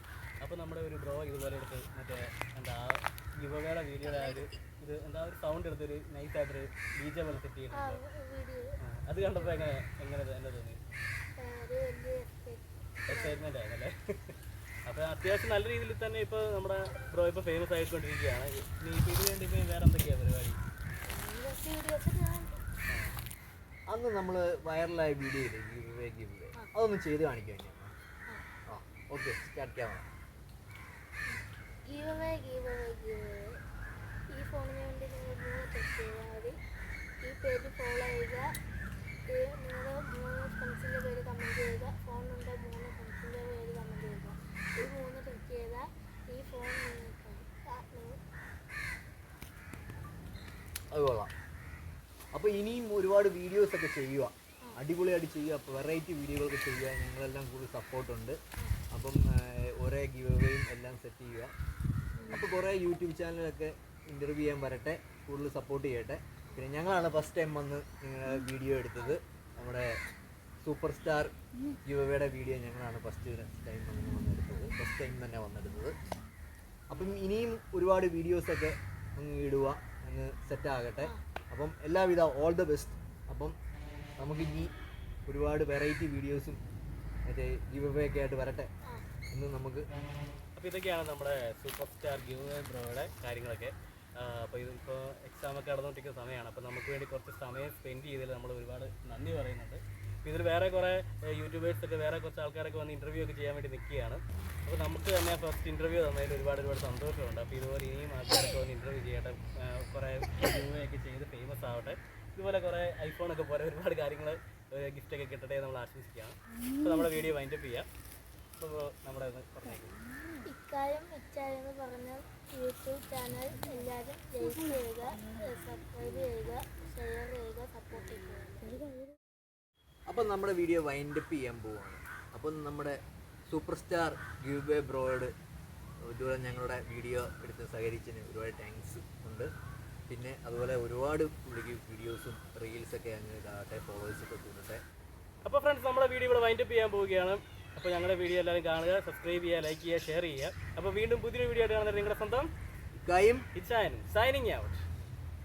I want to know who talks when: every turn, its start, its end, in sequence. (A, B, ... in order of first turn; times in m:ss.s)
0:00.4-0:08.0 A
0:07.7-0:08.7 B
0:08.9-0:10.8 A
0:09.4-0:09.7 B
0:11.4-0:13.4 B
0:13.1-0:14.4 A
0:14.9-0:20.6 A
0:21.0-0:22.6 B
0:22.9-0:23.1 A
0:23.9-0:27.9 C
0:28.7-0:30.1 C
0:31.3-0:33.6 B
0:34.3-0:36.6 B
0:37.2-0:38.5 B
0:39.3-0:48.2 B
0:50.9-0:51.3 C
0:52.3-0:58.4 C
0:58.9-1:01.5 C
1:02.2-1:02.5 B
1:02.3-1:10.0 C
1:10.6-1:11.3 C
1:11.8-1:16.0 C
1:16.9-1:23.6 C
1:24.2-1:24.7 C
1:25.2-1:26.6 C
1:27.2-1:28.7 C
1:29.3-1:29.9 C
1:30.6-1:57.9 A
1:58.6-2:00.0 A
2:00.4-2:09.0 B
2:10.1-2:15.3 C
2:16.0-2:19.5 C
2:20.1-2:24.8 C
2:25.4-2:32.5 A
2:32.9-2:33.5 C
2:33.5-2:34.8 A